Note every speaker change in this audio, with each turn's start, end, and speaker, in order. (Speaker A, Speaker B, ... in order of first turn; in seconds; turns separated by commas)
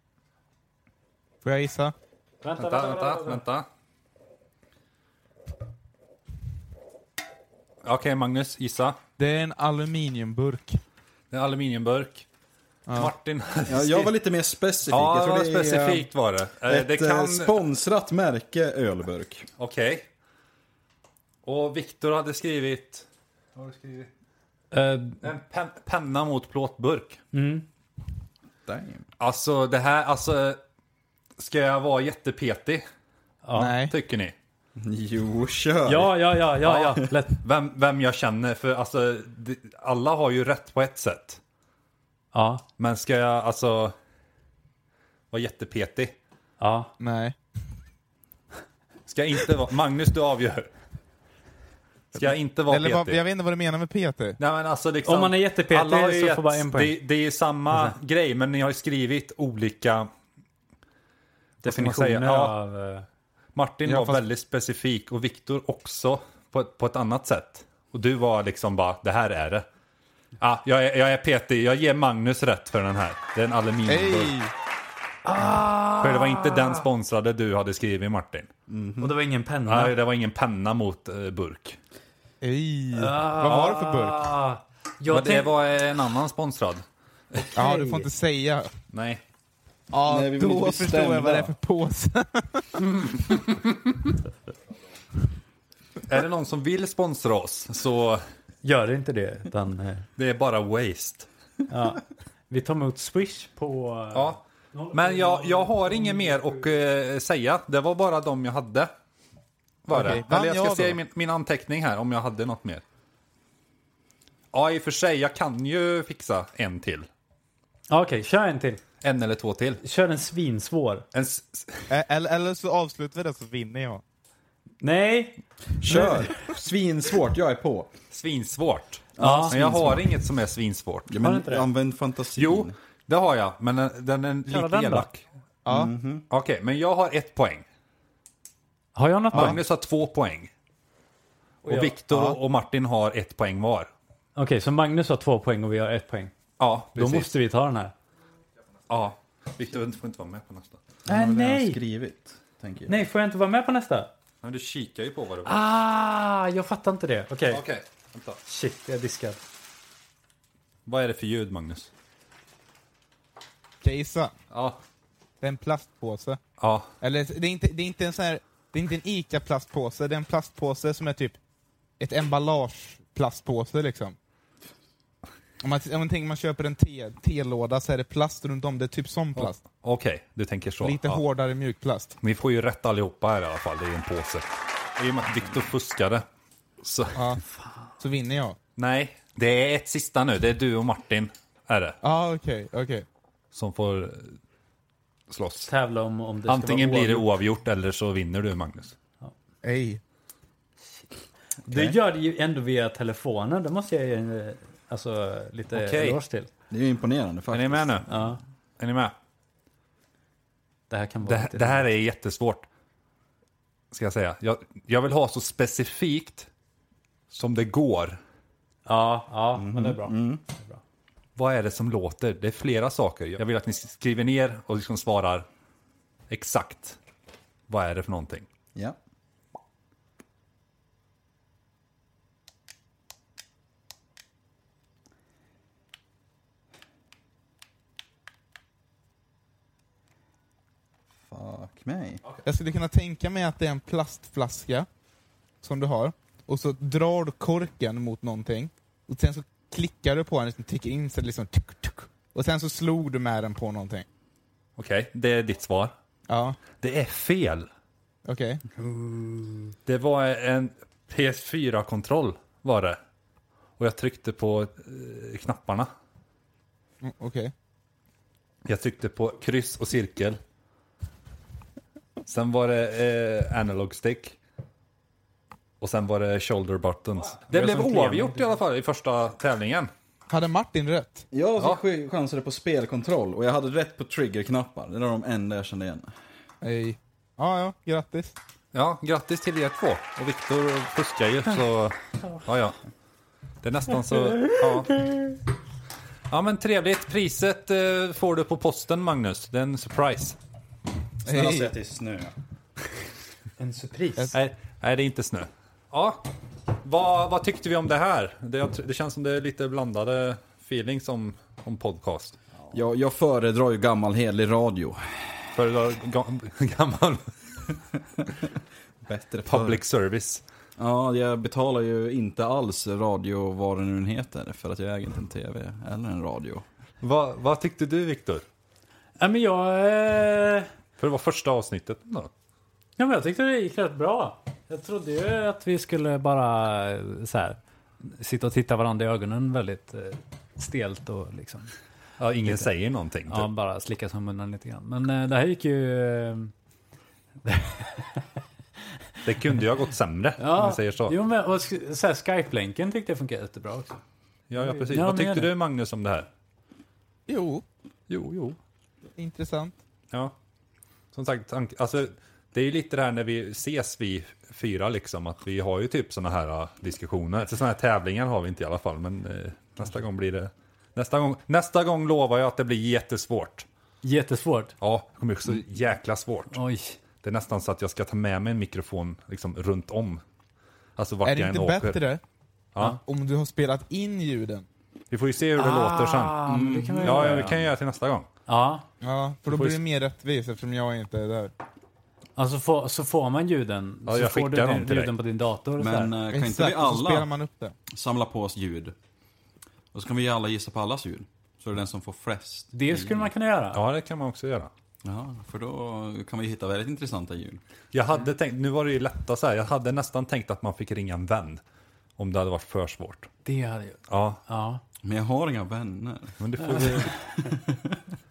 Speaker A: 1.4-1.9, Speaker B: 2.4-3.4, Speaker C: 2.6-3.7, Speaker C: 7.8-9.0, Speaker A: 9.2-10.8, Speaker C: 11.3-12.3, Speaker A: 12.9-13.1, Speaker C: 12.9-14.1, Speaker D: 13.7-15.8, Speaker C: 14.9-17.6, Speaker A: 15.8-16.0, Speaker D: 16.7-19.5, Speaker C: 19.6-20.1, Speaker C: 21.4-24.1, Speaker B: 24.7-25.3, Speaker C: 25.2-27.2, Speaker B: 27.3-27.7, Speaker D: 28.7-29.1, Speaker C: 29.2-30.6, Speaker C: 31.4-32.9, Speaker B: 33.4-33.8, Speaker A: 33.5-34.0, Speaker C: 33.9-34.3, Speaker D: 34.8-36.1, Speaker B: 35.9-37.4, Speaker C: 36.6-41.4, Speaker B: 42.3-42.6, Speaker C: 42.8-43.9, Speaker C: 45.3-46.1, Speaker B: 46.6-46.9, Speaker A: 47.0-47.4, Speaker C: 49.1-50.7, Speaker C: 52.1-53.2, Speaker A: 52.2-54.4, Speaker C: 54.4-60.1, Speaker B: 55.0-57.0, Speaker B: 57.7-58.0, Speaker B: 61.6-63.1, Speaker C: 61.6-62.5, Speaker C: 63.5-69.7, Speaker A: 63.9-64.2, Speaker C: 70.4-74.4, Speaker A: 73.9-74.5, Speaker B: 75.2-76.9, Speaker C: 75.9-78.5, Speaker D: 78.7-79.2, Speaker B: 79.0-80.0, Speaker C: 79.7-81.8, Speaker A: 82.4-84.2, Speaker B: 82.9-85.6, Speaker C: 83.5-83.8, Speaker C: 85.1-87.9, Speaker A: 87.5-88.7, Speaker C: 88.9-89.2, Speaker A: 89.9-92.9, Speaker D: 90.1-91.5, Speaker C: 93.1-93.8, Speaker C: 96.0-98.3, Speaker B: 98.6-100.1, Speaker C: 100.2-101.3, Speaker B: 101.7-106.7, Speaker C: 104.1-104.4, Speaker C: 104.9-108.9, Speaker C: 109.9-112.8, Speaker A: 109.9-111.0, Speaker C: 114.5-117.1, Speaker B: 117.9-118.8, Speaker C: 119.0-119.8, Speaker B: 119.8-121.0, Speaker C: 121.1-121.9, Speaker A: 121.9-124.0, Speaker B: 124.8-126.2, Speaker D: 125.8-127.9, Speaker C: 128.1-131.1, Speaker D: 129.2-130.1, Speaker B: 129.2-129.5, Speaker D: 131.1-132.8, Speaker B: 131.2-131.7, Speaker C: 132.3-135.2, Speaker B: 134.5-135.1, Speaker A: 135.7-135.9, Speaker D: 135.7-136.3, Speaker C: 136.3-137.6, Speaker B: 138.9-139.6, Speaker C: 139.3-140.5, Speaker C: 141.6-143.9, Speaker B: 141.7-141.9, Speaker A: 142.1-142.4, Speaker B: 144.4-146.3, Speaker C: 146.6-147.3, Speaker B: 146.9-147.9, Speaker C: 148.9-150.8, Speaker D: 151.1-153.0, Speaker B: 151.1-151.8, Speaker B: 152.9-154.1, Speaker C: 154.4-155.6, Speaker B: 155.4-157.6, Speaker C: 157.5-158.4, Speaker B: 158.4-159.4, Speaker C: 160.9-161.9, Speaker A: 163.8-164.3, Speaker C: 164.5-164.8, Speaker A: 165.4-166.4, Speaker C: 166.6-166.9, Speaker A: 167.0-171.4, Speaker A: 172.0-174.2, Speaker A: 175.6-179.6, Speaker C: 179.4-181.2, Speaker A: 180.8-182.2, Speaker C: 182.2-186.2, Speaker C: 186.8-187.3, Speaker A: 187.2-187.4, Speaker A: 188.0-188.6, Speaker C: 188.8-192.0, Speaker A: 192.0-193.1, Speaker C: 193.5-194.4, Speaker C: 195.3-195.7, Speaker B: 195.6-197.3, Speaker C: 196.5-199.0, Speaker A: 199.6-200.0, Speaker B: 201.7-206.5, Speaker D: 201.7-202.0, Speaker C: 205.7-206.2, Speaker D: 206.7-208.0, Speaker C: 207.5-208.1, Speaker B: 208.1-208.4, Speaker C: 208.8-209.1, Speaker B: 210.9-211.9, Speaker C: 211.3-212.7, Speaker C: 213.9-216.5, Speaker C: 217.3-218.2, Speaker B: 218.9-220.8, Speaker D: 219.5-220.4, Speaker C: 221.4-225.5, Speaker C: 226.3-227.0, Speaker C: 227.7-228.5, Speaker D: 241.2-242.2, Speaker A: 242.4-244.9, Speaker A: 245.6-254.1, Speaker C: 254.8-255.9, Speaker A: 256.3-256.6, Speaker C: 256.8-257.7, Speaker A: 258.2-258.6, Speaker B: 258.8-259.7, Speaker C: 259.9-263.0, Speaker C: 263.8-265.9, Speaker A: 267.0-267.5, Speaker C: 268.6-270.4, Speaker C: 272.2-274.4, Speaker C: 275.8-279.9, Speaker B: 277.5-278.5, Speaker A: 280.3-281.3, Speaker D: 281.3-286.1, Speaker A: 286.6-288.3, Speaker C: 288.7-292.8, Speaker C: 293.6-295.0, Speaker C: 296.3-300.4, Speaker D: 301.2-302.4, Speaker A: 301.3-301.7, Speaker B: 303.6-304.4, Speaker C: 304.3-306.3, Speaker C: 306.8-312.4, Speaker D: 312.7-315.4, Speaker C: 315.5-317.8, Speaker D: 319.0-319.8, Speaker C: 319.5-320.4, Speaker D: 320.8-326.6, Speaker C: 327.0-328.4, Speaker B: 329.2-330.7, Speaker C: 331.0-332.3, Speaker B: 333.0-341.7, Speaker C: 342.2-343.5, Speaker B: 342.5-342.7, Speaker B: 343.3-346.5, Speaker B: 347.4-348.3, Speaker C: 349.2-351.2, Speaker B: 350.4-354.0, Speaker C: 354.5-356.3, Speaker B: 354.6-355.5, Speaker A: 357.3-357.6, Speaker C: 358.1-358.6, Speaker A: 359.2-359.8, Speaker C: 361.1-373.7, Speaker B: 374.0-374.8, Speaker C: 374.8-376.6, Speaker B: 376.5-377.0, Speaker C: 377.2-380.2, Speaker C: 381.0-382.0, Speaker A: 381.2-382.2, Speaker A: 383.0-384.7, Speaker C: 385.1-386.5, Speaker B: 385.6-387.6, Speaker D: 386.5-387.6, Speaker C: 387.0-388.3, Speaker B: 388.5-388.9, Speaker A: 389.0-391.5, Speaker B: 392.4-396.2, Speaker C: 394.1-395.1, Speaker D: 395.8-397.3, Speaker A: 396.3-397.8, Speaker D: 397.9-398.9, Speaker D: 399.9-403.3, Speaker B: 402.7-403.8, Speaker C: 403.7-404.7, Speaker D: 405.0-407.6, Speaker C: 407.9-411.6, Speaker C: 412.2-413.3, Speaker B: 413.4-414.8, Speaker C: 414.1-414.4, Speaker D: 415.0-418.1, Speaker C: 416.4-417.1, Speaker B: 416.7-417.2